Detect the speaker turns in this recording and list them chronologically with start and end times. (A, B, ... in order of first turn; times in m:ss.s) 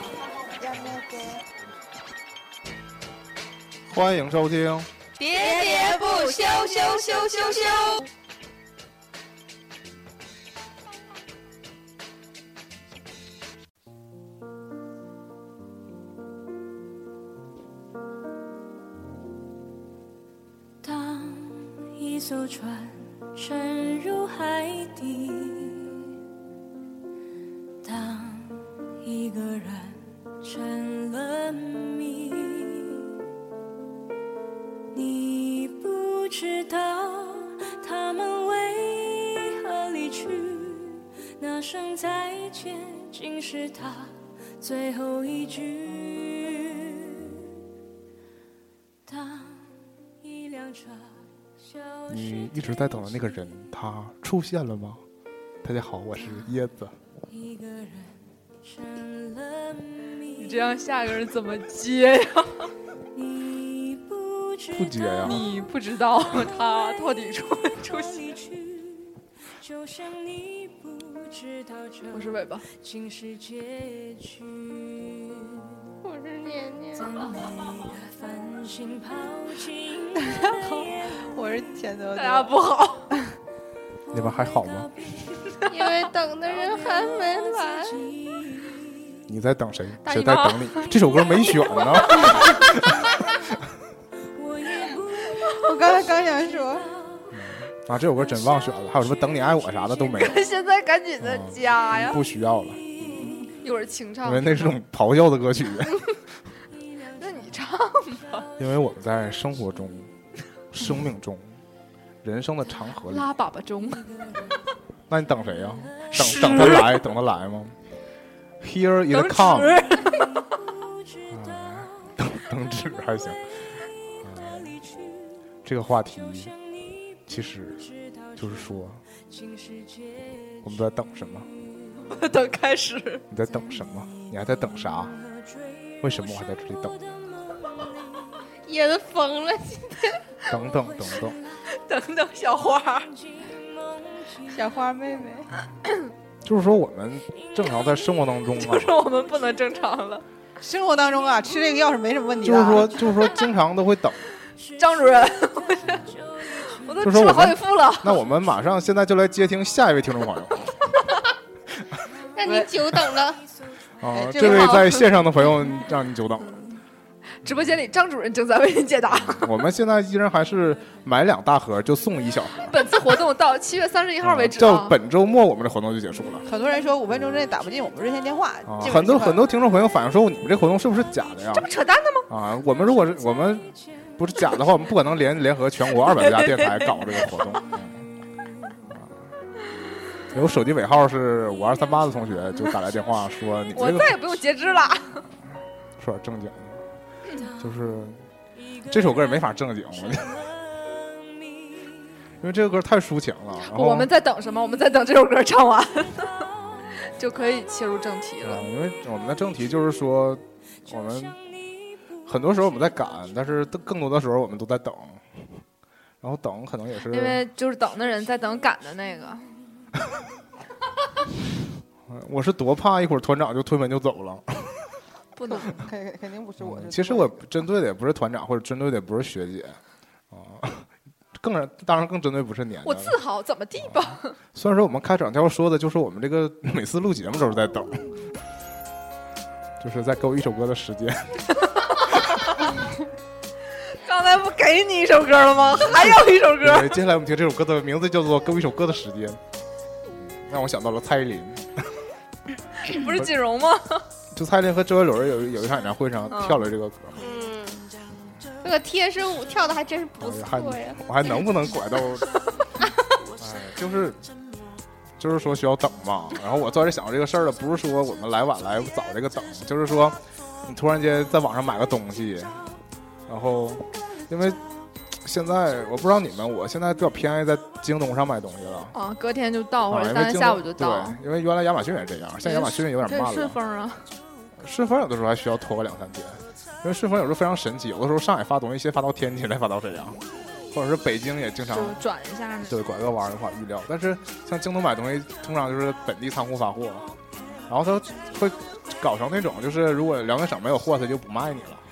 0:00.6-0:01.4 A
0:03.9-0:04.9 B
0:05.2-0:08.0 C
0:05.4-0:06.8 A
0:20.8-0:26.0 D
0:27.8-0:33.1 D
0:34.9-0:47.4 D
0:49.1-0:49.6 D
0:50.2-0:51.1 D
0:52.1-0:55.0 B
0:55.6-0:57.0 B
0:57.4-1:00.2 D
1:00.4-1:02.7 E
1:03.2-1:04.7 D
1:04.7-1:05.5 B
1:05.2-1:08.4 E
1:09.6-1:12.0 D
1:12.1-1:12.7 E
1:12.8-1:15.7 D
1:16.0-1:17.2 C
1:17.1-1:20.5 D
1:20.2-1:22.5 A
1:22.1-1:23.1 E
1:24.1-1:24.9 B
1:25.6-1:28.2 C
1:29.3-1:33.2 B
1:30.0-1:30.9 E
1:31.5-1:32.8 E
1:34.4-1:34.9 D
1:35.5-1:36.9 A
1:37.3-1:40.4 B
1:40.1-1:42.2 E
1:41.2-1:43.3 B
1:43.2-1:44.8 E
1:44.2-1:46.0 B
1:47.1-1:48.4 E
1:48.6-1:50.1 B
1:50.7-1:51.6 B
1:52.2-1:53.3 B
1:53.1-1:54.1 E
1:55.1-1:57.7 B
1:56.1-1:57.1 E
1:58.6-1:59.8 B
1:59.1-2:00.4 E
2:01.3-2:03.5 B
2:04.2-2:04.8 B
2:05.6-2:06.5 B
2:07.3-2:09.0 B
2:09.3-2:10.2 D
2:10.6-2:11.5 B
2:12.0-2:13.2 E
2:13.3-2:15.1 B
2:16.0-2:17.0 B
2:18.6-2:20.2 C
2:20.5-2:21.4 B
2:21.7-2:23.1 E
2:24.5-2:25.5 A
2:26.4-2:28.9 B
2:28.6-2:30.2 E
2:30.6-2:33.0 A
2:32.4-2:34.2 B
2:34.8-2:36.1 E
2:36.6-2:38.2 E
2:37.0-2:40.9 B
2:42.4-2:43.4 C
2:44.0-2:46.5 B
2:44.1-2:45.0 A
2:44.3-2:45.1 E
2:46.5-2:46.8 E
2:47.4-2:49.6 E
2:49.1-2:52.7 B
2:52.6-2:55.0 E
2:54.2-2:56.4 B
2:56.4-2:59.5 A
2:58.7-3:01.7 B
3:01.5-3:02.3 E
3:02.3-3:08.0 B
3:10.3-3:14.2 B
3:13.7-3:15.2 E
3:16.0-3:16.8 B
3:17.6-3:18.2 B
3:18.9-3:20.5 B
3:22.4-3:24.1 B
3:23.6-3:26.3 E
3:27.1-3:28.7 E
3:28.4-3:31.4 B
3:32.2-3:35.2 B
3:36.2-3:37.4 B
3:37.1-3:39.4 E
3:42.1-3:44.8 B
3:45.3-3:45.8 E
3:45.5-3:47.4 A
3:46.6-3:49.8 B
3:50.3-3:53.2 B
3:52.8-3:54.3 E
3:53.8-3:58.1 B
3:59.8-4:01.4 B
4:01.7-4:02.7 E
4:03.9-4:07.0 E
4:05.6-4:09.4 B
4:10.2-4:12.0 B
4:12.8-4:14.0 E
4:14.3-4:17.2 B
4:16.3-4:16.6 E
4:17.2-4:17.8 C
4:18.6-4:21.0 C
4:20.2-4:22.3 B
4:23.4-4:24.2 B
4:25.2-4:32.7 B
4:33.3-4:34.6 B
4:35.1-4:38.9 B
4:38.9-4:41.2 E
4:39.9-4:43.6 B
4:42.4-4:44.1 E
4:44.6-4:50.2 B
4:50.7-4:52.0 B
4:51.7-4:52.8 E
4:52.7-4:57.1 B
4:57.7-5:01.8 B